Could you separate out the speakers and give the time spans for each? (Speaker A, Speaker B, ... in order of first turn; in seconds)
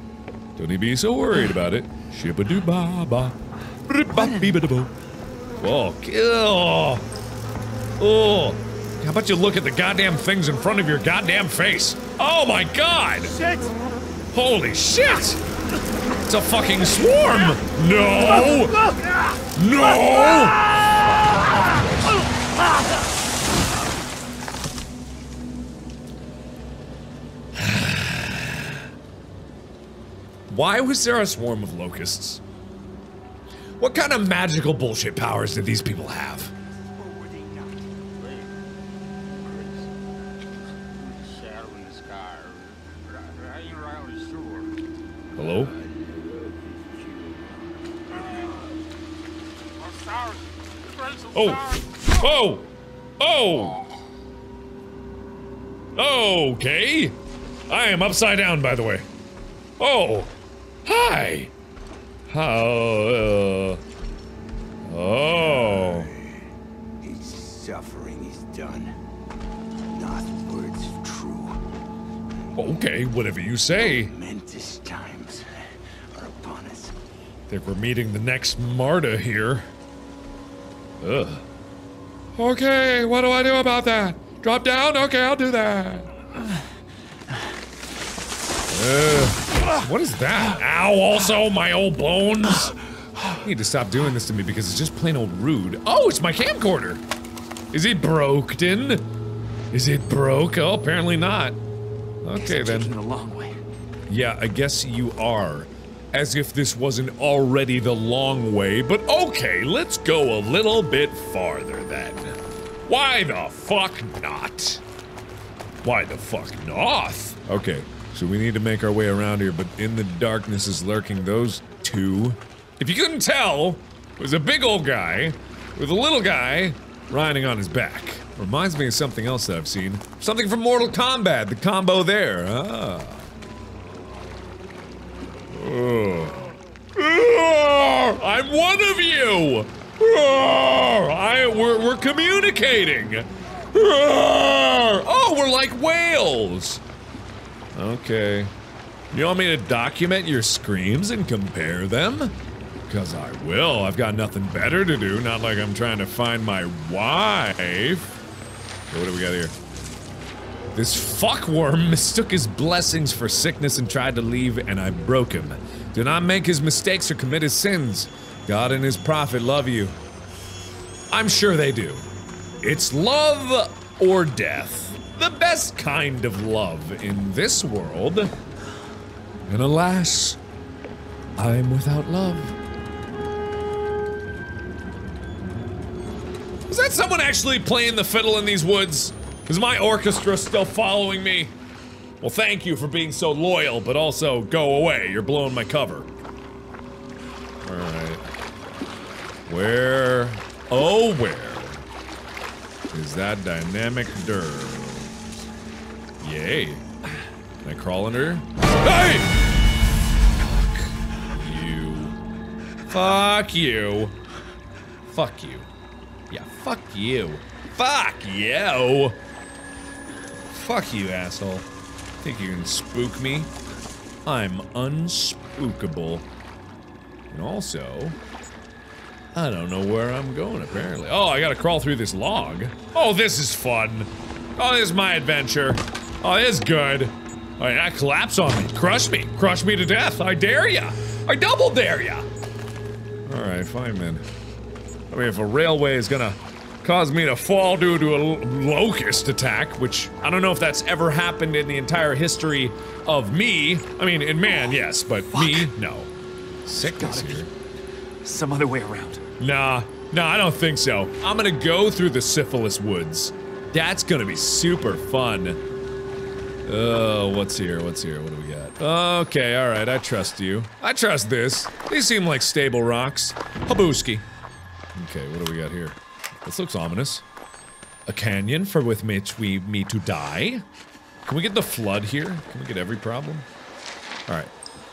Speaker A: 0.6-4.9, 5.6-7.0, 8.0-13.3, 14.3-15.4, 16.2-18.9, 19.5-20.7, 21.4-22.2, 27.6-28.7, 30.5-32.4, 33.8-36.5, 45.4-45.7, 51.3-53.8, 56.0-57.2, 57.7-59.1, 59.8-60.3, 60.8-61.5, 62.3-63.8, 64.8-66.1, 72.5-74.1, 77.5-79.7, 81.0-81.4, 82.3-86.1, 88.7-92.7, 93.3-97.0, 97.7-99.0, 99.7-101.6, 102.2-102.9, 104.1-114.8, 115.8-133.2, 135.5-146.8, 147.7-148.5, 149.1-152.3, 152.9-158.1, 158.9-159.5, 160.7-170.0, 171.1-172.1, 172.6-178.3, 179.5-180.4, 181.4-182.6, 186.7-191.5, 192.2-196.1, 197.6-198.2, 199.5-201.8, 202.9-205.1, 206.2-206.8, 207.6-209.4, 210.5-212.2, 212.9-214.2, 215.1-215.7, 216.3-219.2, 220.5-221.7, 222.2-223.5, 224.2-226.3, 227.3-228.2, 229.3-242.3, 243.3-244.2, 245.1-256.1, 256.6-257.5, 259.4-265.6, 266.6-274.2, 274.9-277.2, 278.1-280.6, 281.2-283.5, 284.3-284.5
Speaker B: 4.1-4.5, 102.3-103.6, 255.3-255.7, 256.9-257.5, 258.2-259.2
Speaker C: 37.0-38.5, 39.5-39.9, 41.1-44.7, 47.0-47.5, 67.0-68.9, 69.9-71.6, 73.9-75.6, 76.1-76.9